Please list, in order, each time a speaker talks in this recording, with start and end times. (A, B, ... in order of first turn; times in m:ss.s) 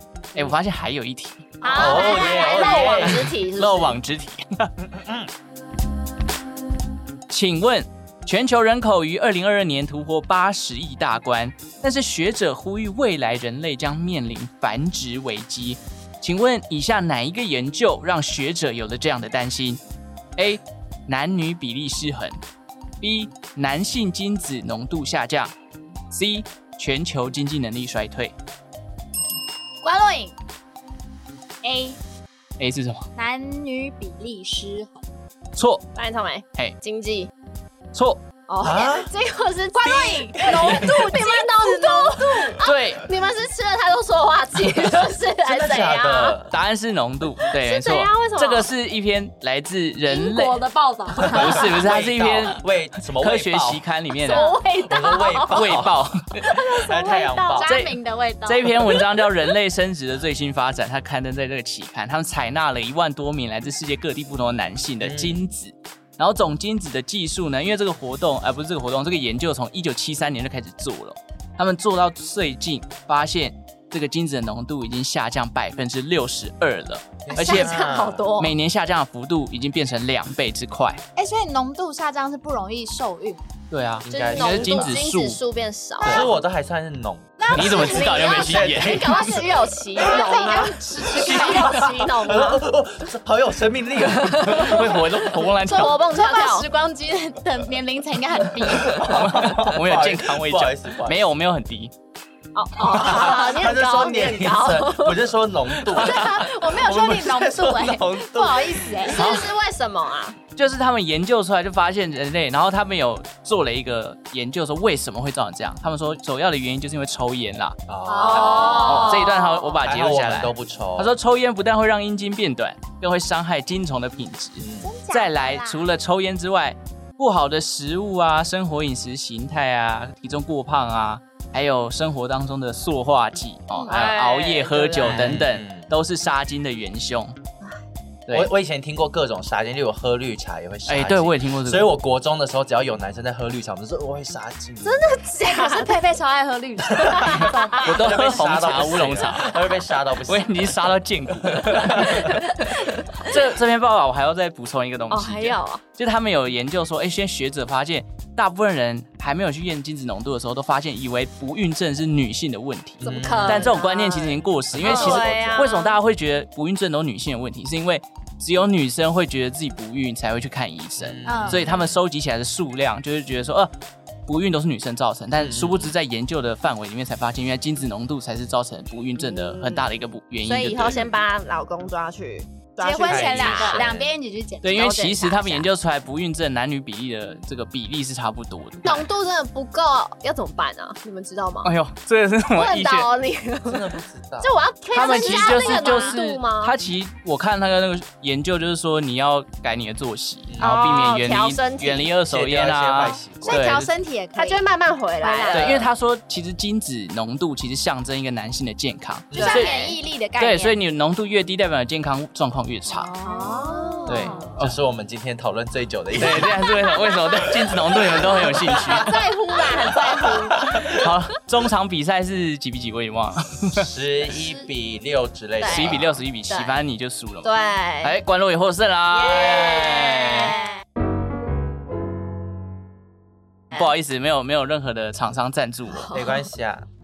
0:00.3-0:02.0 A
0:01.6-0:03.0 B
0:01.6-0:04.0 C
0:01.7-0:03.3 D
0:03.1-0:04.9 A
0:05.0-0:05.3 D
0:07.3-0:19.8 A
0:20.4-0:22.4 A
0:23.0-0:25.5 A
0:26.1-0:28.3 A
0:29.8-0:30.3 B
0:31.6-0:32.0 B
0:32.6-0:33.1 A
0:33.1-0:35.0 B
0:35.6-0:35.8 A
0:36.0-0:37.3 C
0:37.9-0:38.2 A
0:38.5-0:46.4 C
0:38.6-0:39.1 D
0:39.7-0:42.6 B
0:40.5-0:41.0 A
0:42.6-0:43.1 A
0:45.4-0:46.5 D
0:46.5-0:50.6 A
0:47.5-0:48.7 C
0:50.1-0:51.7 B
0:51.3-0:52.6 A
0:51.3-0:53.8 D
0:53.2-0:54.4 A
0:54.2-0:55.2 B
0:54.2-0:55.5 C
0:54.8-0:56.0 D
0:55.5-0:56.6 A
0:56.7-0:57.8 D
0:56.8-0:59.0 B
0:56.9-0:57.7 C
0:57.6-1:17.7 A
1:05.0-1:05.4 D
1:17.2-1:18.3 D
1:17.3-1:18.5 C
1:18.4-1:21.0 A
1:21.2-1:23.4 B
1:23.7-1:25.4 A
1:24.0-1:25.0 D
1:24.1-1:26.3 C
1:26.0-1:29.4 D
1:26.0-1:26.3 A
1:27.4-1:32.1 B
1:27.5-1:29.1 A
1:27.7-1:32.6 C
1:30.0-1:30.3 D
1:31.1-1:34.9 D
1:34.4-1:36.0 A
1:34.5-1:36.7 C
1:35.6-1:39.2 B
1:38.8-1:41.2 D
1:39.1-1:41.9 A
1:42.5-1:45.3 C
1:42.8-1:49.0 D
1:45.9-1:49.3 B
1:49.0-1:50.4 C
1:49.1-1:49.5 A
1:50.6-1:57.8 A
1:57.9-1:59.1 D
1:58.0-1:59.2 B
1:58.2-1:59.7 C
1:58.5-2:17.4 A
1:59.8-2:01.1 D
2:04.6-2:04.9 D
2:04.8-2:05.8 B
2:13.7-2:14.0 B
2:13.8-2:15.4 C
2:15.0-2:15.9 D
2:18.3-2:25.1 D
2:20.8-2:21.9 A
2:24.8-2:26.0 C
2:25.4-2:28.0 B
2:26.9-2:30.8 D
2:27.0-2:27.6 C
2:27.8-2:29.5 A
2:30.3-2:32.4 A
2:31.5-2:32.4 D
2:33.2-2:53.7 A
2:35.1-2:35.8 C
2:43.0-2:46.0 C
2:43.0-2:43.7 D
2:44.7-2:45.7 D
2:51.0-2:51.9 D
2:51.3-2:51.6 B
2:54.2-3:01.1 A
2:55.3-2:55.9 D
2:59.2-2:59.9 C
3:00.4-3:03.9 C
3:02.8-3:05.7 B
3:03.0-3:04.1 D
3:04.6-3:09.1 A
3:08.8-3:11.7 C
3:11.6-3:13.1 A
3:12.5-3:16.8 C
3:13.6-3:14.5 D
3:14.9-3:16.2 B
3:14.9-3:23.9 A
3:20.5-3:21.1 D
3:20.6-3:22.1 C
3:22.3-3:23.6 D
3:23.4-3:24.6 B
3:24.3-3:25.9 C
3:25.2-3:25.8 B
3:25.5-3:29.8 A
3:29.3-3:29.7 D
3:29.3-3:30.0 C
3:29.4-3:30.8 B
3:30.4-3:33.1 A
3:32.9-3:34.5 B
3:33.2-3:34.6 C
3:34.1-3:34.8 A
3:34.6-3:36.7 D
3:36.1-3:39.2 A
3:37.7-3:38.9 D
3:38.7-3:40.6 C
3:38.9-3:40.7 B
3:40.2-3:41.0 D
3:40.8-3:43.9 A
3:43.8-3:46.1 D
3:45.6-3:46.8 C
3:45.6-3:50.6 A
3:47.4-3:48.1 C
3:49.1-3:50.7 C
3:53.7-3:56.2 A
3:56.1-3:56.4 C
3:56.1-3:56.8 D